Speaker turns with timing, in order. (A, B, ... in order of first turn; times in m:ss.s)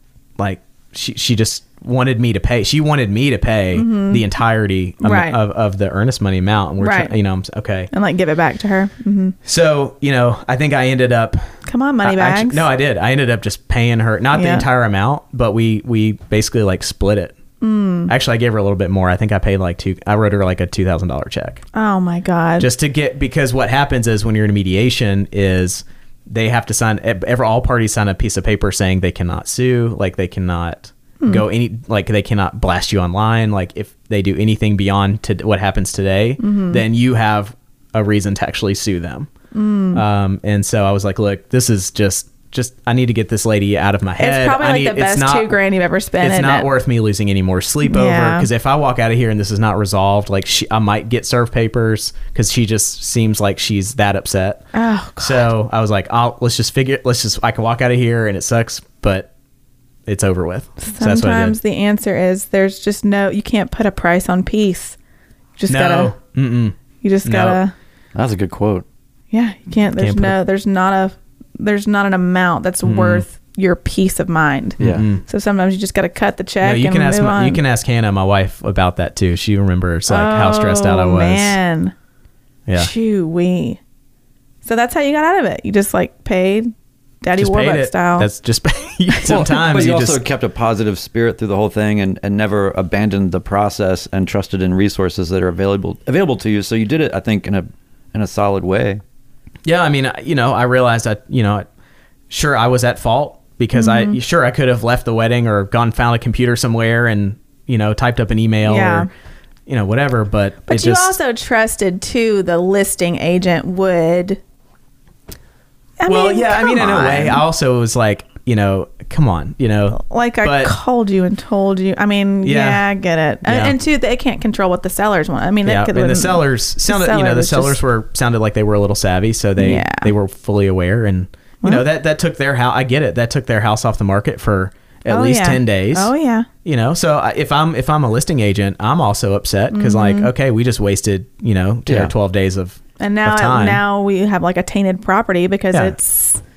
0:00.4-0:07.9 A
0:03.7-0:04.2 B
0:05.0-0:05.4 B
0:06.8-0:07.1 B
0:07.9-0:09.4 B
0:09.4-0:11.4 A
0:11.6-0:12.6 B
0:12.0-0:17.3 A
0:14.3-0:14.6 B
0:17.6-0:18.1 B
0:18.1-0:21.6 A
0:21.7-0:22.7 B
0:22.6-0:39.3 A
0:36.4-0:36.8 B
0:39.5-0:40.0 B
0:39.9-0:45.6 A
0:44.2-0:46.7 B
0:46.2-0:54.6 A
0:47.8-0:48.5 B
0:54.7-0:55.5 B
0:55.2-0:59.3 A
1:00.1-1:01.6 A
1:00.8-1:05.0 B
1:05.6-1:06.1 B
1:05.7-1:07.6 A
1:07.0-1:07.7 B
1:08.1-1:08.8 C
1:09.3-1:17.6 B
1:10.0-1:10.4 A
1:12.8-1:13.2 A
1:14.8-1:15.1 C
1:14.8-1:15.2 A
1:16.6-1:21.6 A
1:20.1-1:21.9 B
1:22.7-1:23.8 B
1:24.6-1:26.7 B
1:27.2-1:28.3 B
1:27.4-1:30.2 A
1:29.1-1:29.4 B
1:29.2-1:39.0 C
1:39.6-1:41.7 A
1:42.3-1:49.1 A
1:43.7-1:44.2 B
1:48.6-1:49.1 B
1:49.7-1:51.2 A
1:50.7-1:54.4 B
1:56.0-1:57.4 B
1:56.1-2:00.8 A
1:59.9-2:07.8 B
2:02.4-2:02.9 A
2:03.4-2:03.8 A
2:05.6-2:16.1 A
2:09.6-2:10.1 B
2:15.1-2:16.5 B
2:16.6-2:23.8 A
2:19.7-2:20.3 B
2:21.9-2:22.1 C
2:23.0-2:26.4 B